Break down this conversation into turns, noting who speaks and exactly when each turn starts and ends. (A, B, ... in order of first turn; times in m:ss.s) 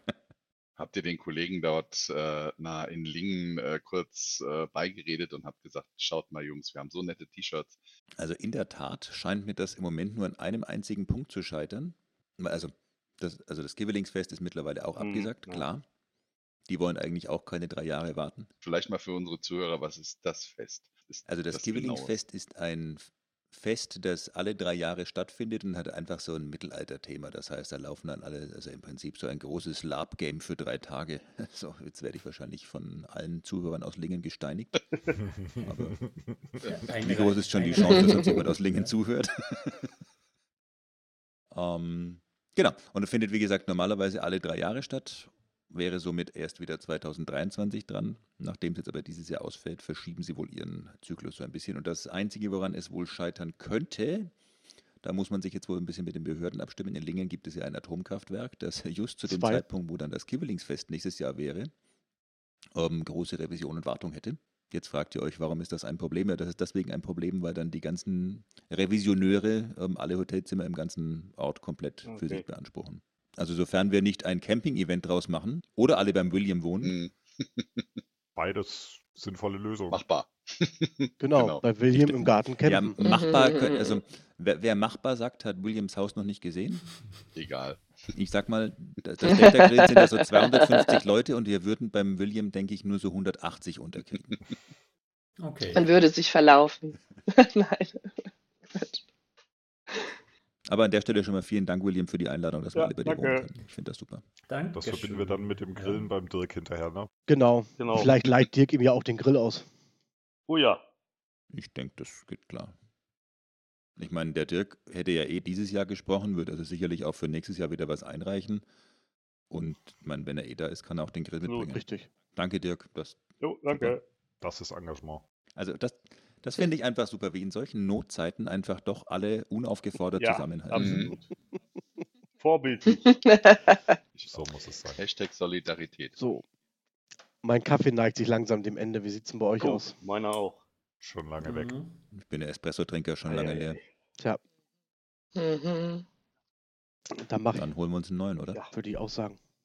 0:00.8-0:07.8 A
0:08.2-0:15.8 B
0:15.0-0:15.7 C
0:16.7-0:18.5 B
0:18.6-0:22.2 A
0:21.2-0:34.8 B
0:35.6-0:35.9 B
0:36.6-0:38.9 D
0:37.0-0:39.9 B
0:41.5-0:54.3 B
0:55.0-1:01.7 B
0:59.3-0:59.6 E
1:02.8-1:16.9 B
1:12.1-1:12.4 C
1:16.8-1:18.0 A
1:18.4-1:20.0 F
1:19.9-1:22.3 A
1:21.2-1:23.1 E
1:22.6-1:26.8 B
1:23.0-1:23.9 G
1:27.3-1:28.0 A
1:28.2-1:34.2 B
1:29.4-1:30.0 G
1:35.4-1:35.8 D
1:35.7-1:38.1 G
1:38.7-1:39.0 G
1:40.7-1:44.2 B
1:42.8-1:43.5 C
1:44.5-1:46.1 D
1:44.7-1:47.1 F
1:47.3-1:49.7 E
1:47.8-1:48.1 C
1:50.5-1:50.8 C
1:51.5-1:52.8 B
1:54.0-1:58.6 B
1:59.5-2:04.0 B
2:01.5-2:01.7 C
2:01.7-2:02.1 E
2:03.4-2:04.0 C
2:04.4-2:05.2 F
2:05.6-2:11.0 B
2:10.2-2:11.3 C
2:10.8-2:11.2 A
2:12.4-2:13.0 C
2:13.1-2:13.8 G
2:14.1-2:16.2 A
2:14.3-2:15.0 F
2:16.2-2:16.4 E
2:17.4-2:20.0 E
2:19.6-2:20.6 C
2:21.0-2:21.8 F
2:21.4-2:22.0 D
2:22.1-2:23.8 B
2:23.3-2:23.8 C
2:25.4-2:26.0 G
2:27.2-2:27.7 E
2:27.5-2:28.6 B
2:28.7-2:29.4 E